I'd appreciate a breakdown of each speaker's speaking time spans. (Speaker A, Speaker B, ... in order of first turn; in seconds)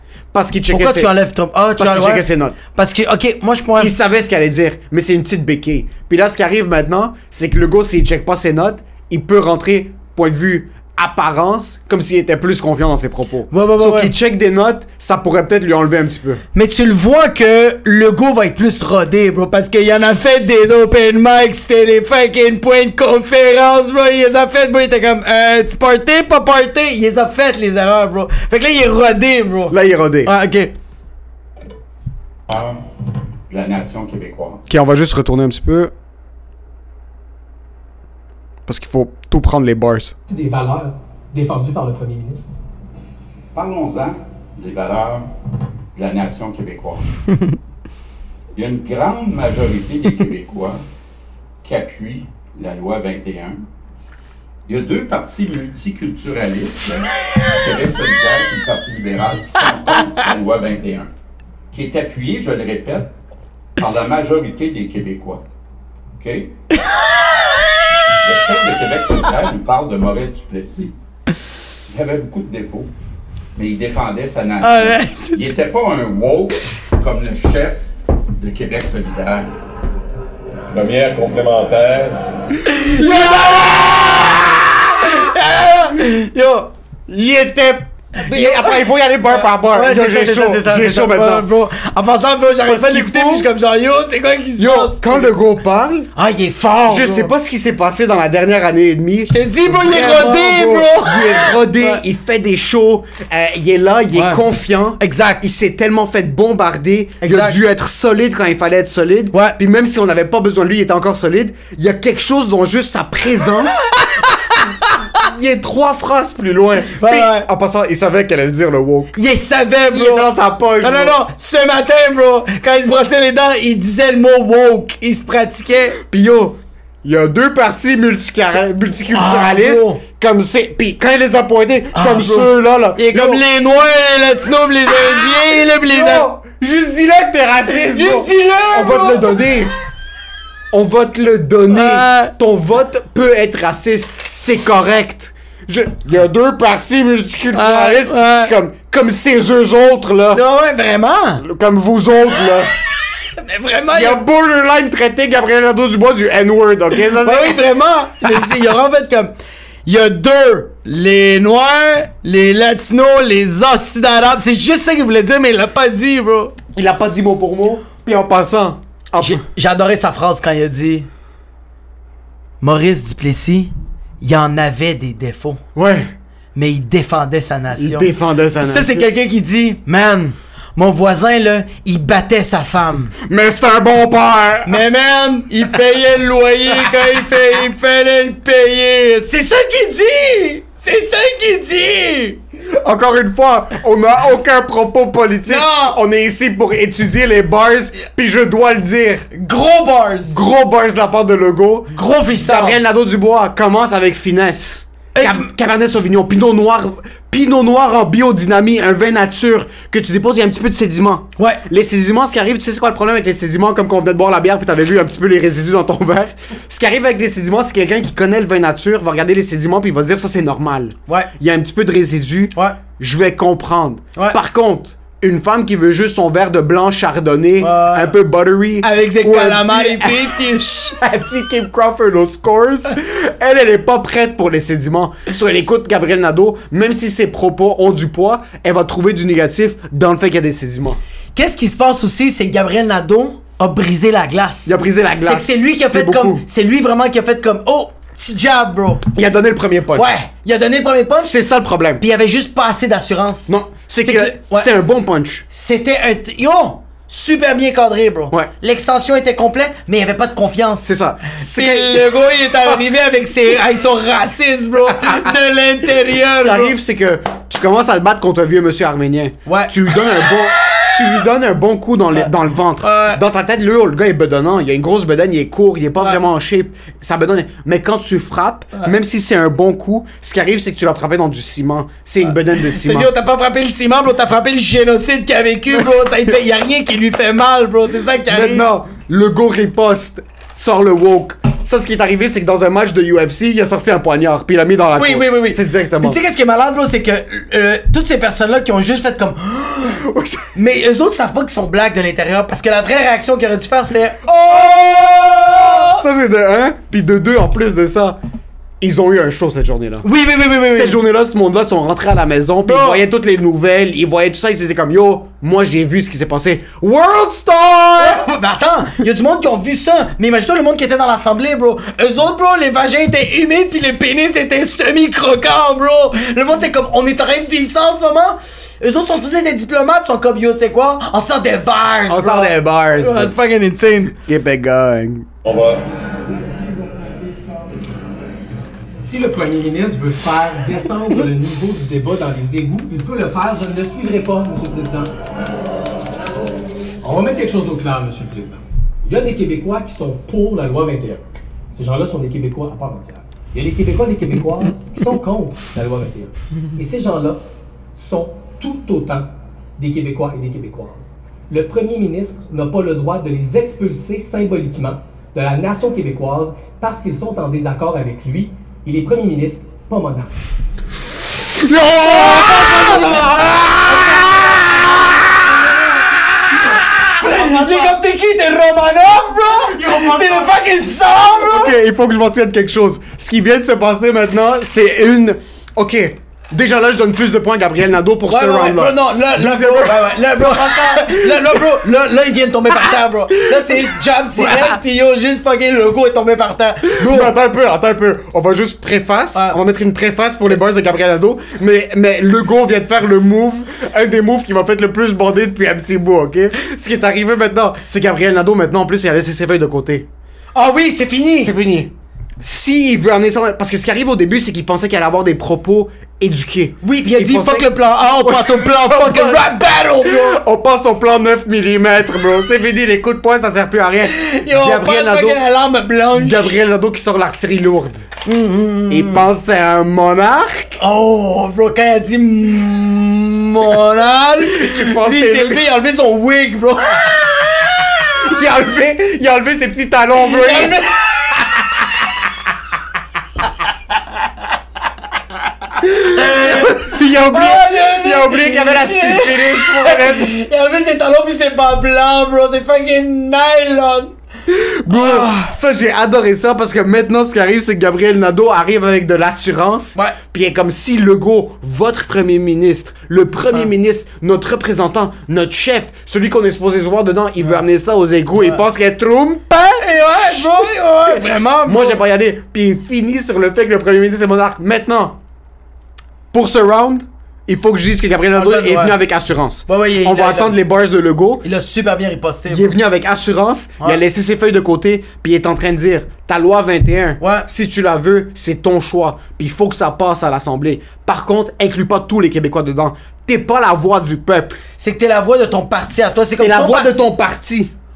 Speaker A: 0.3-1.1, 1.8-2.6, 3.8-16.4, 29.7-30.3, 34.7-35.9, 38.7-40.1, 82.9-85.3, 87.1-91.5, 92.7-93.5, 94.6-96.1, 96.8-119.2, 119.9-121.2, 126.1-133.4, 135.7-139.7, 140.7-150.4, 151.4-152.7, 153.9-157.6, 166.7-169.4, 175.7-176.1, 177.7-179.1, 183.2-184.8, 192.8-199.2, 200.3-241.0, 244.7-246.4, 249.1-250.1, 251.2-252.0, 253.5-255.4, 260.8-262.1, 264.9-265.3, 266.3-283.1, 288.3-296.2, 299.9-300.5, 304.5-308.2, 308.8-310.1, 310.7-318.2, 332.1-333.3, 334.2-335.3, 371.5-378.0, 379.5-391.8, 393.4-394.8, 396.9-410.1, 411.4-425.4, 426.1-428.0, 428.9-430.8, 434.4-435.6, 438.1-440.8, 445.8-450.4, 454.5-469.8, 471.1-475.2, 476.3-481.4, 482.5-494.6, 496.4-497.7
Speaker B: 0.7-3.9, 13.5-14.1, 16.5-30.7, 74.6-75.5, 82.7-84.4, 85.0-86.7, 88.2-95.3, 96.2-97.3, 99.3-102.0, 104.1-104.4, 105.0-105.4, 107.2-107.6, 116.9-117.5, 119.2-120.3, 120.8-126.0, 129.1-130.0, 131.9-136.3, 137.8-139.4, 141.7-142.3, 147.5-148.5, 150.3-151.4, 153.3-154.2, 157.2-159.3, 159.8-166.5, 169.2-171.1, 172.6-175.6, 176.5-183.1, 184.7-192.4, 195.4-196.0, 199.3-200.4, 201.9-202.8, 205.1-205.5, 211.4-211.6, 227.6-228.2, 228.8-230.9, 241.3-249.0, 249.9-251.4, 252.0-254.7, 255.5-266.7, 269.5-269.7, 272.8-273.2, 282.3-288.6, 294.9-306.0, 310.0-311.0, 312.6-313.0, 318.0-334.1, 372.0-373.3, 376.7-381.8, 388.3-397.3, 410.5-411.5, 416.8-420.4, 424.0-426.5, 428.2-429.3, 430.8-438.1, 440.3-441.4, 446.0-454.1, 454.9-455.5, 469.7-472.0, 478.3-479.0, 479.7-480.6, 481.4-482.7, 487.2-487.5, 494.8-497.0
Speaker C: 32.5-32.8, 33.5-34.6, 43.5-45.3, 45.9-47.1, 48.5-50.8, 51.6-53.6, 54.7-61.1, 61.7-63.1, 63.8-65.4, 66.2-66.5, 68.2-70.9, 71.9-72.9, 73.5-79.5
Speaker D: 40.3-42.5, 338.9-345.1, 347.0-351.2, 351.7-357.4, 357.9-370.3
Speaker E: 80.7-82.3, 335.4-335.8